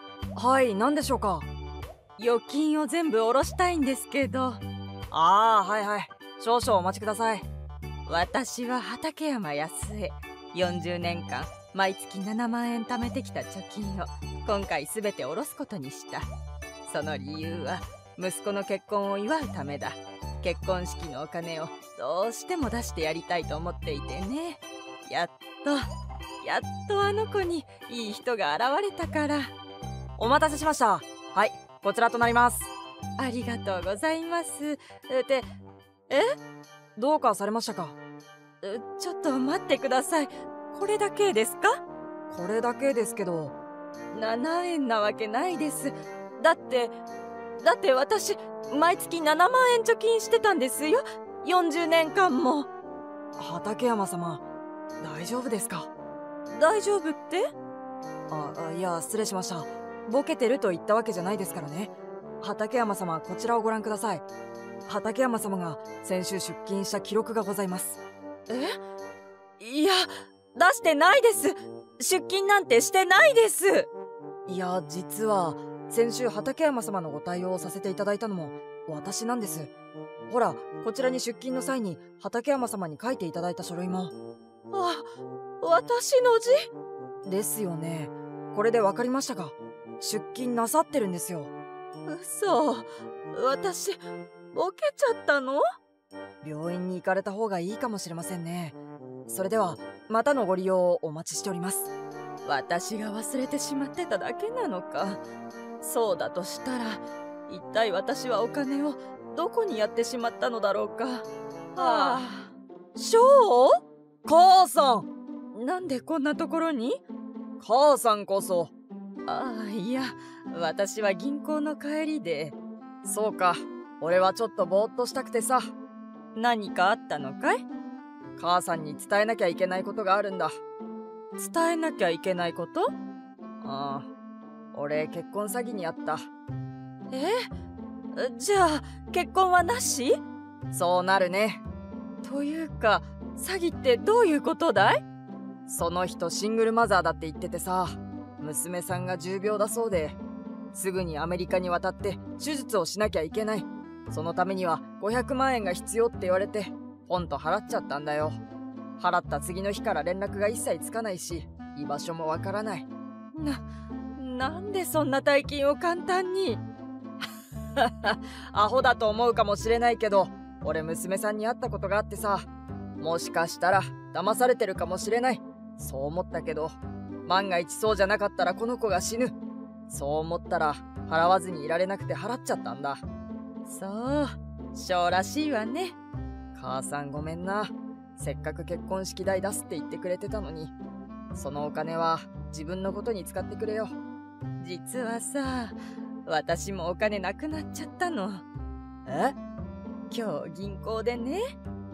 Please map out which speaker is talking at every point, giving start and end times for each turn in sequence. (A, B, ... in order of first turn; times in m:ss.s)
0:00.4-0:01.4 A
0:02.2-0:04.6 B
0:05.1-0:07.4 A
0:08.1-0:16.3 B
0:16.9-0:25.9 B
0:26.4-0:29.5 B
0:30.2-0:32.7 A
0:33.2-0:35.5 B
0:36.1-0:36.4 B
0:37.0-0:38.0 A
0:38.6-0:41.8 B
0:42.3-0:43.5 A
0:44.1-0:47.0 B
0:47.6-0:52.7 B
0:53.4-0:54.4 A
0:55.0-0:55.9 A
0:56.5-0:57.5 B
0:58.3-1:04.2 A
1:04.9-1:08.0 A
1:08.5-1:08.8 B
1:09.6-1:13.9 B
1:14.5-1:19.7 A
1:20.3-1:24.1 A
1:24.7-1:25.1 B
1:25.6-1:26.7 B
1:27.3-1:31.5 A
1:32.1-1:34.0 B
1:34.5-1:35.6 B
1:36.4-1:38.8 A
1:39.3-1:41.9 A
1:42.4-1:45.2 B
1:45.8-1:53.8 B
1:51.8-1:52.2 A
1:54.3-1:55.1 A
1:55.6-1:57.0 B
1:57.6-1:58.7 A
1:59.3-2:02.6 B
2:03.0-2:03.5 A
2:04.0-2:05.7 A
2:06.4-2:07.6 B
2:08.4-2:10.5 A
2:11.4-2:12.9 B
2:13.6-2:14.1 A
2:14.8-2:16.2 A
2:15.1-2:15.6 B
2:17.1-2:17.5 B
2:18.2-2:20.2 B
2:20.7-2:21.6 A
2:22.2-2:25.0 B
2:25.7-2:30.2 A
2:30.8-2:38.3 A
2:31.2-2:31.7 B
2:32.4-2:32.9 B
2:34.4-2:36.1 B
2:39.0-2:42.9 A
2:43.4-2:43.6 B
2:44.2-2:46.6 B
2:48.1-2:50.0 B
2:48.8-2:52.4 A
2:51.0-2:52.0 B
2:53.0-2:55.2 A
2:53.2-2:55.4 B
2:55.8-2:56.7 A
2:57.3-2:59.3 A
2:57.4-2:57.8 B
2:59.9-3:03.0 A
3:03.6-3:06.0 B
3:06.6-3:08.6 A
3:06.6-3:07.4 B
3:08.6-3:10.7 B
3:09.8-3:10.1 A
3:11.4-3:13.7 A
3:11.9-3:13.8 B
3:14.6-3:18.4 B
3:19.1-3:19.3 A
3:20.1-3:21.4 B